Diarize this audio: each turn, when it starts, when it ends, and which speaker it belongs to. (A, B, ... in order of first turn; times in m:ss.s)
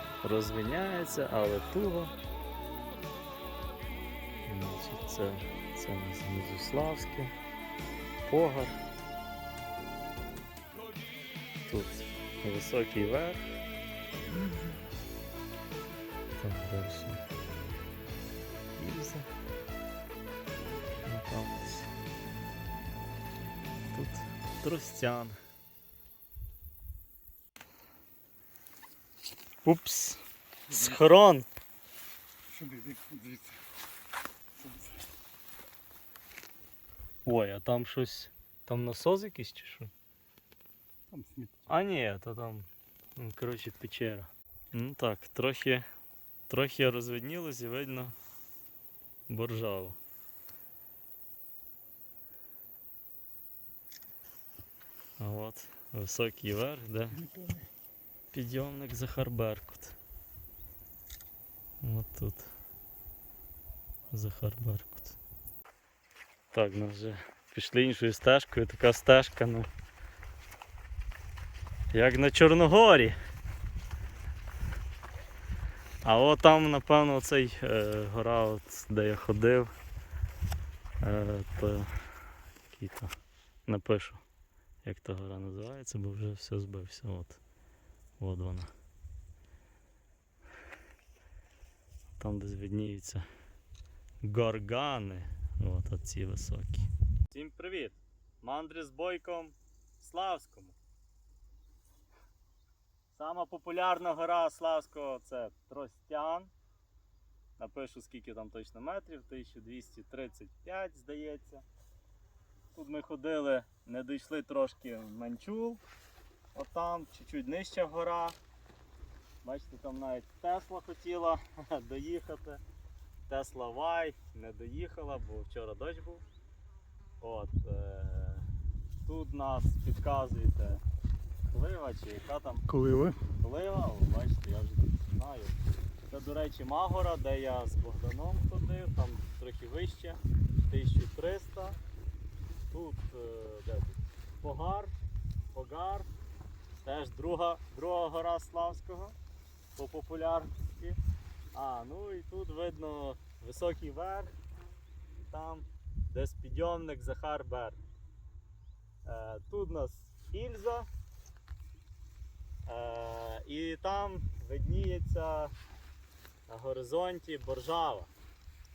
0:00.2-0:02.1 A
0:04.4-0:07.3 A
0:08.2-0:08.8 A
0:11.6-0:13.4 A
0:14.3-0:14.7 A
0:16.4-0:17.2 A
0:18.8-0:19.3 A
0:21.0-0:21.9 A
0:23.9-0:25.4 A
0:29.6-0:31.4 A
0:32.5-0:33.6 B
0:37.2-0:39.9 A
0:41.1-0:41.6 B
0:41.7-0:45.8 A
0:46.5-0:48.1 A
0:49.3-0:50.0 A
0:55.2-0:57.2 A
0:58.3-1:00.0 A
1:01.8-1:02.5 A
1:04.1-1:05.2 A
1:06.5-1:09.7 A
1:11.9-1:13.2 A
1:16.0-1:19.7 A
1:21.0-1:21.9 A
1:22.7-1:23.1 A
1:23.6-1:24.2 A
1:24.8-1:27.4 A
1:28.2-1:28.7 A
1:32.2-1:33.2 A
1:34.2-1:40.8 A
1:43.1-1:46.5 A
1:47.6-1:51.6 A
1:52.7-1:55.8 A
1:56.5-1:58.4 A
1:59.4-2:02.6 A
2:03.3-2:06.2 A
2:07.2-2:08.5 A
2:09.0-2:10.8 A
2:11.5-2:15.6 A
2:12.8-2:13.1 B
2:16.1-2:21.8 A
2:22.7-2:24.9 A
2:25.5-2:26.1 A
2:26.8-2:29.1 A
2:29.8-2:31.0 A
2:31.5-2:34.3 A
2:35.3-2:37.8 A
2:39.0-2:40.9 A
2:42.6-2:45.5 A
2:46.5-2:48.1 A